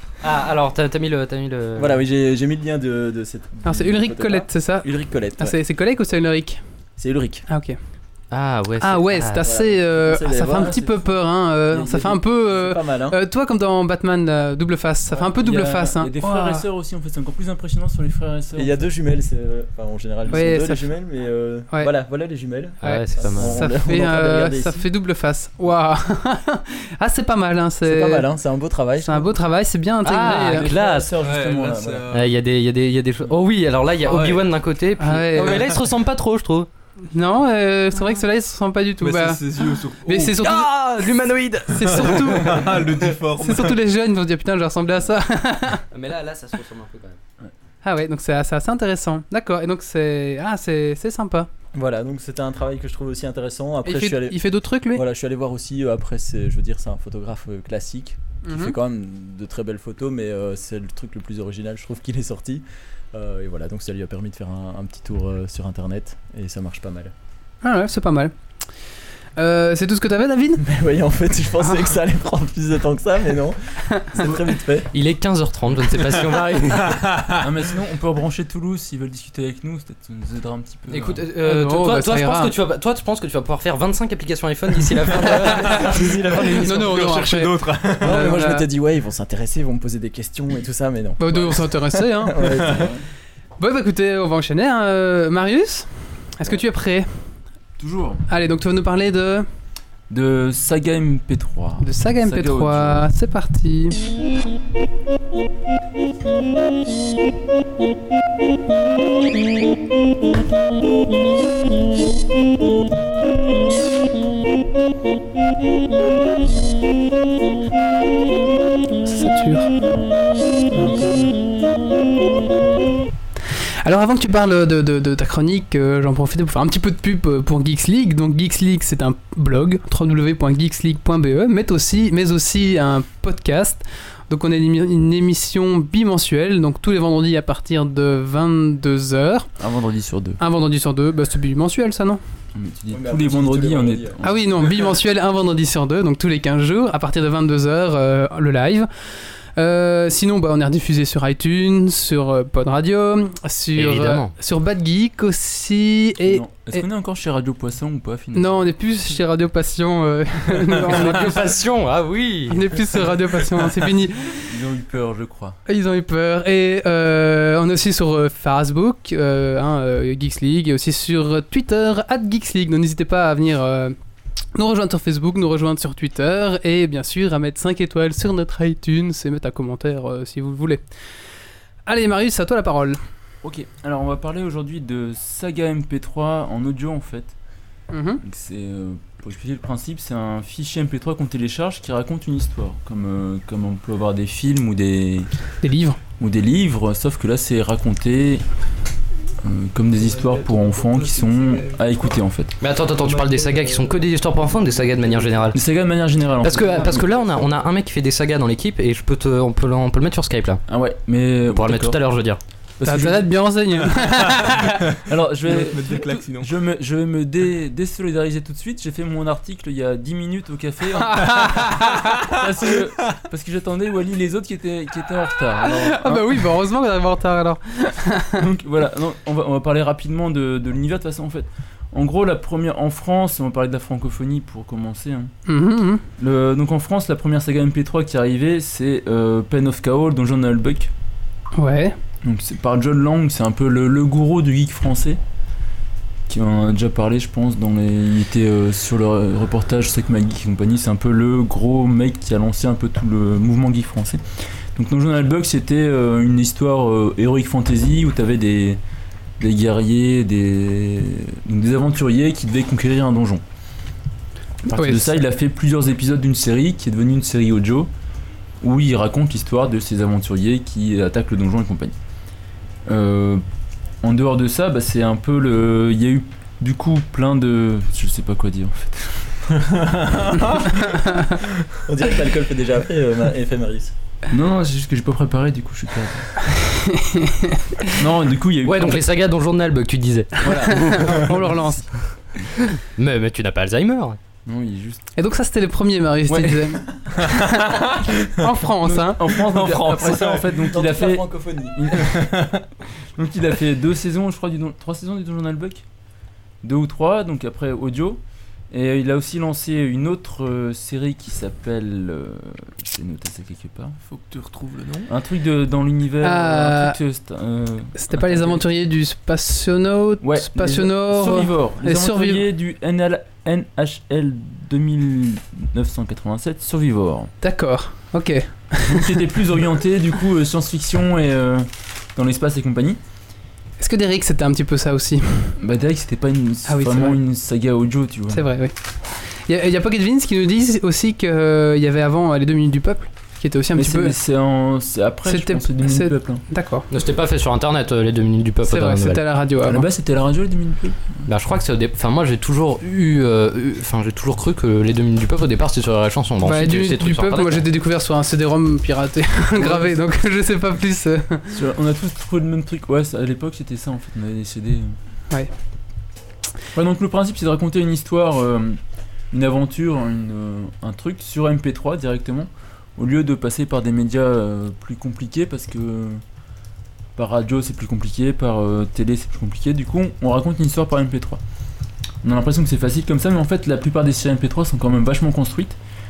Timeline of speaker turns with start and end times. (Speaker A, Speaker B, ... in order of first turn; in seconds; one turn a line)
Speaker A: 0.2-2.0
Speaker B: 1.8-5.6
Speaker C: 3.6-6.6
Speaker B: 7.0-7.5
Speaker C: 7.5-7.8
Speaker A: 8.3-9.5
Speaker C: 8.8-16.6
Speaker B: 9.4-10.9
Speaker D: 10.6-10.9
Speaker B: 11.7-13.2
Speaker D: 15.1-18.8
Speaker B: 18.6-24.9
Speaker C: 20.3-20.9
Speaker A: 22.8-23.6
Speaker C: 22.8-28.3
Speaker B: 27.8-29.3
Speaker C: 29.0-30.7
Speaker A: 30.0-31.1
Speaker D: 30.3-32.1
Speaker E: 31.2-32.3
Speaker A: 32.1-36.7
Speaker E: 34.1-34.5
Speaker C: 35.0-35.6
Speaker E: 35.4-35.9
Speaker C: 37.1-39.4
Speaker E: 39.0-40.5
Speaker C: 40.0-42.7
Speaker A: 40.5-42.1
Speaker E: 41.8-43.8
Speaker C: 43.4-45.8
Speaker A: 45.9-47.2
Speaker C: 47.8-51.5
Speaker B: 51.7-67.1
Speaker C: 53.9-55.0
Speaker C: 58.4-58.8
Speaker C: 67.6-68.3
Speaker C: 69.4-70.6
Speaker B: 70.6-74.9
Speaker A: 74.9-77.0
Speaker E: 77.0-77.3
Speaker D: 77.4-81.3
Speaker A: 80.9-86.6
Speaker C: 81.4-82.5
Speaker E: 85.3-88.2
Speaker C: 86.5-88.7
Speaker B: 88.0-93.0
Speaker C: 91.2-92.6
Speaker C: 93.6-97.1
Speaker D: 97.8-98.2
Speaker C: 98.3-99.5
Speaker D: 100.1-103.1
Speaker C: 101.8-104.0
Speaker C: 119.0-119.7
Speaker C: 123.8-139.5
Speaker D: 139.6-140.4
Speaker C: 140.4-142.2
Speaker D: 142.6-144.6
Speaker B: 142.9-144.2
Speaker C: 144.2-156.9
Speaker A: 153.8-154.3
Speaker D: 156.2-158.7
Speaker C: 158.3-161.4
Speaker A: 160.8-162.8
Speaker C: 162.5-164.4
Speaker D: 164.5-165.6
Speaker C: 165.7-173.9
Speaker C: 174.6-180.8
Speaker C: 181.9-183.0
Speaker D: 183.4-187.3
Speaker C: 187.9-188.2
Speaker D: 188.2-195.3
Speaker C: 195.6-196.0
Speaker D: 196.2-198.4
Speaker D: 199.4-202.6
Speaker E: 200.0-201.8
Speaker A: 202.6-205.6
Speaker D: 205.5-207.1
Speaker A: 206.4-210.6
Speaker D: 210.7-212.0
Speaker A: 211.5-212.4
Speaker D: 212.8-213.4
Speaker C: 212.8-214.8
Speaker D: 215.1-226.5
Speaker E: 215.5-216.5
Speaker C: 221.2-221.9
Speaker C: 225.6-228.4
Speaker D: 228.4-235.3
Speaker C: 235.5-236.0
Speaker D: 236.2-240.9
Speaker C: 241.6-241.9
Speaker D: 242.2-245.2
Speaker D: 246.3-254.2
Speaker D: 254.8-258.8
Speaker D: 259.4-263.4
Speaker C: 264.7-265.1
Speaker D: 264.7-267.9
Speaker D: 268.6-271.9
Speaker D: 272.9-273.4
Speaker D: 274.0-280.8
Speaker C: 281.1-281.3
Speaker B: 281.9-283.9
Speaker D: 284.3-286.5
Speaker C: 286.6-288.0
Speaker D: 287.9-289.1
Speaker A: 288.6-290.7
Speaker D: 290.4-291.8
Speaker C: 290.4-291.9
Speaker A: 292.9-294.2
Speaker D: 294.5-295.1
Speaker C: 295.2-297.8
Speaker D: 296.3-297.3
Speaker C: 298.3-300.0
Speaker D: 298.8-302.6
Speaker B: 300.5-301.8
Speaker D: 303.2-305.8
Speaker D: 306.6-314.0
Speaker E: 314.0-315.1
Speaker D: 315.1-318.6
Speaker C: 316.2-317.0
Speaker C: 318.0-322.4
Speaker D: 320.2-327.3
Speaker C: 327.4-329.2
Speaker D: 328.8-333.0
Speaker C: 333.8-335.6
Speaker D: 335.6-338.4
Speaker C: 336.7-337.2
Speaker C: 338.3-338.7
Speaker C: 339.5-344.1
Speaker D: 343.7-346.4
Speaker C: 345.3-346.9
Speaker A: 346.9-349.2
Speaker C: 348.7-349.9
Speaker D: 349.6-351.3
Speaker A: 351.3-357.6
Speaker C: 356.4-361.5
Speaker D: 359.6-360.0
Speaker D: 361.5-365.0
Speaker D: 366.8-368.8
Speaker D: 369.3-376.2
Speaker D: 377.2-381.4
Speaker D: 382.2-385.8